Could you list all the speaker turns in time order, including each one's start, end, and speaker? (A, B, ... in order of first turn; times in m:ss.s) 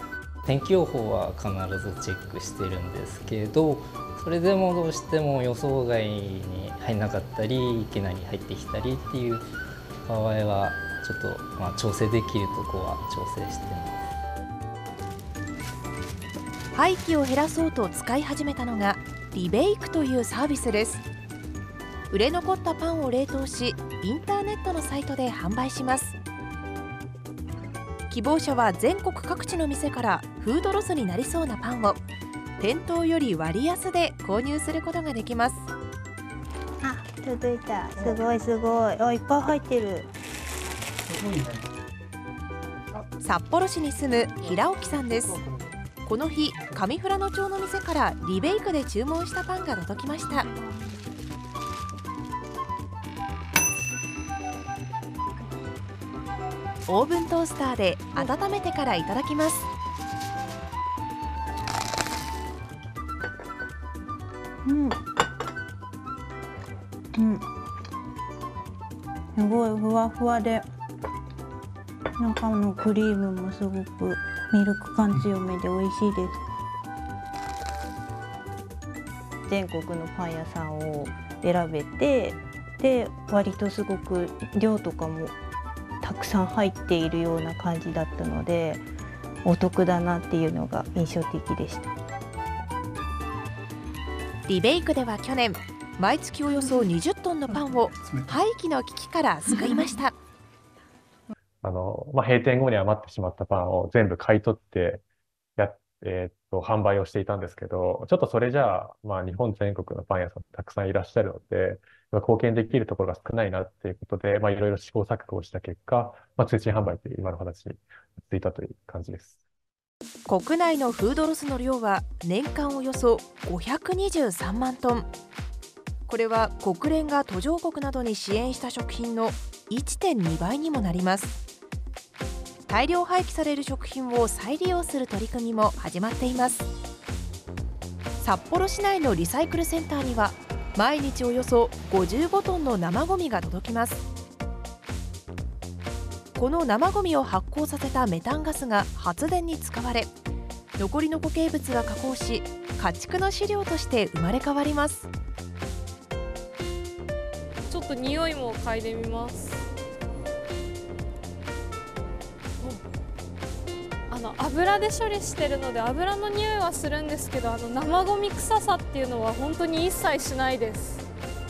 0:00.4-0:09.4 A
0:10.0-0:14.0 A
0:16.7-0:21.0 B
0:22.1-0:26.2 B
0:28.1-0:32.0 B
0:32.6-0:35.7 B
0:36.8-0:40.1 C
0:43.2-0:45.4 B
0:46.0-0:50.5 B
0:56.9-0:59.7 B
1:04.6-1:05.0 C
1:07.2-1:07.4 C
1:09.3-1:10.6 C
1:12.2-1:16.4 C
1:19.5-1:25.4 C
1:26.0-1:28.8 C
1:29.4-1:31.9 C
1:34.5-1:40.1 B
1:41.6-1:45.0 D
1:45.6-1:59.3 D
2:00.3-2:05.1 B
2:06.1-2:11.4 B
2:12.7-2:16.7 B
2:18.2-2:24.0 B
2:26.4-2:30.1 B
2:30.8-2:35.1 B
2:37.7-2:39.6 E
2:44.1-2:51.0 E